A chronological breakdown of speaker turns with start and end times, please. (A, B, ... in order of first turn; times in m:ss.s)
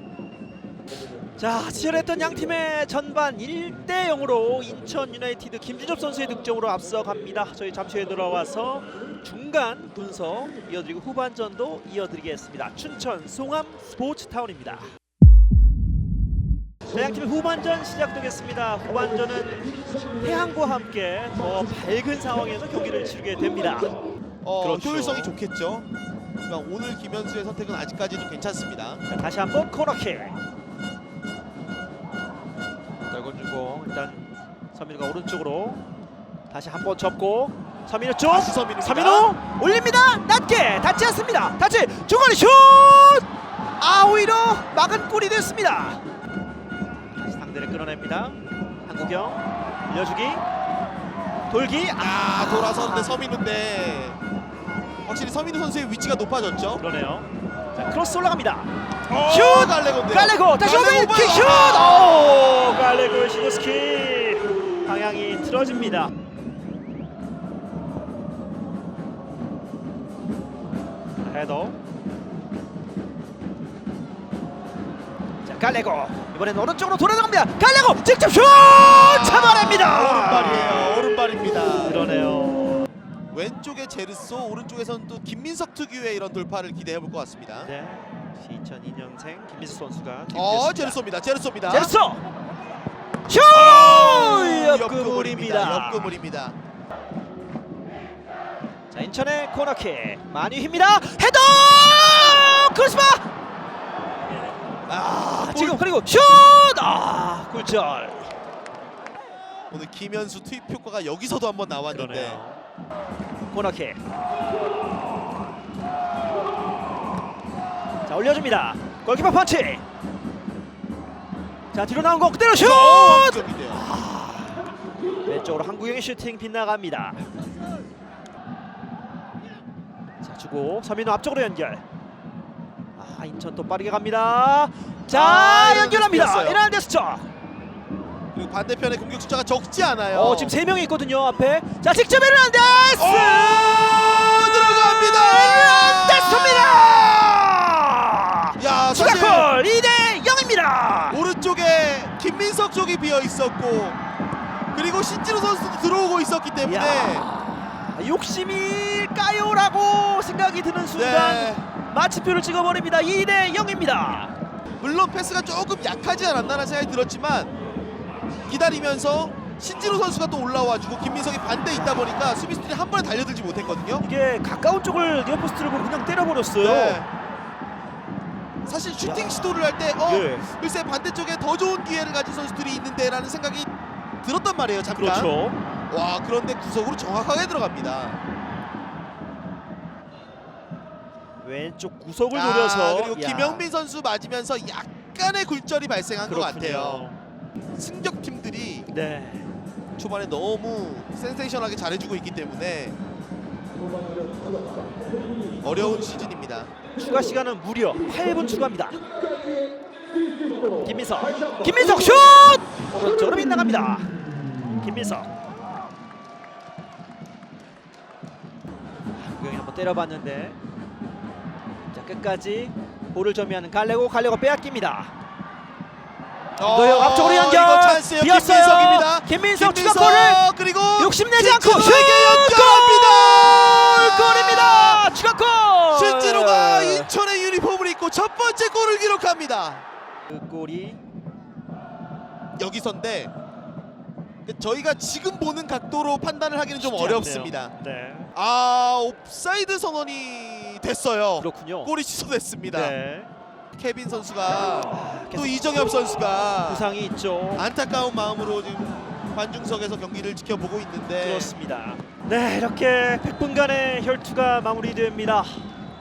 0:01.4-0:14.9 A
0:16.9-0:23.9 A
0:24.4-0:25.9 B
0:24.6-0:25.3 A
0:26.5-0:29.0 B
0:29.1-0:30.4 A
0:33.1-0:35.8 A
0:36.5-0:43.2 A
0:38.3-0:39.3 B
0:43.8-0:46.0 A
0:47.2-0:50.4 A
0:51.5-0:53.2 A
0:52.0-0:54.2 B
0:55.0-0:56.8 B
0:56.8-1:06.1 A
0:59.1-1:02.4 B
1:11.2-1:11.8 A
1:15.4-1:21.1 A
1:18.4-1:22.1 B
1:21.8-1:22.9 A
1:23.3-1:27.7 B
1:27.6-1:31.0 A
1:30.3-1:31.9 B
1:31.7-1:32.2 A
1:33.2-1:36.2 A
1:33.5-1:36.6 B
1:38.9-1:43.2 A
1:44.9-1:48.3 A
1:45.0-1:45.8 B
1:49.7-1:52.4 B
1:51.9-1:52.6 A
1:53.5-1:54.0 A
1:58.0-1:59.8 A
2:01.7-2:04.6 A
2:02.5-2:03.8 B
2:05.2-2:07.2 A
2:10.2-2:11.8 A
2:13.0-2:17.3 A
2:15.1-2:16.6 B
2:18.3-2:20.6 B
2:20.1-2:31.2 A
2:23.0-2:27.2 B
2:28.6-2:29.5 B
2:31.1-2:34.0 B
2:34.7-2:37.3 B
2:36.6-2:44.3 A
2:40.9-2:41.6 B
2:44.8-2:47.5 B
2:48.5-2:54.0 B
2:54.0-2:57.0 A
2:56.6-2:57.1 B
2:58.6-3:03.7 B
2:59.0-3:00.4 A
3:04.2-3:05.3 B
3:04.9-3:05.6 A
3:05.9-3:08.2 B
3:11.4-3:13.7 A
3:12.3-3:17.1 B
3:16.2-3:17.2 A
3:17.8-3:18.9 B
3:18.9-3:19.5 A
3:20.0-3:23.0 B
3:25.6-3:26.7 B
3:26.9-3:29.0 A
3:30.8-3:34.1 A
3:34.8-3:35.3 A
3:39.2-3:40.6 A
3:41.9-3:45.1 A
3:46.6-3:55.1 B
3:46.6-3:50.4 A
3:51.0-3:57.1 A
3:55.9-3:59.8 B
4:00.3-4:01.0 A
4:02.6-4:03.3 B
4:04.4-4:07.7 B
4:06.8-4:08.3 A
4:08.3-4:13.0 B
4:11.4-4:11.9 A
4:12.7-4:13.3 A
4:13.7-4:16.9 B
4:14.8-4:15.6 A
4:16.6-4:17.7 A
4:17.5-4:21.5 B
4:21.2-4:25.7 A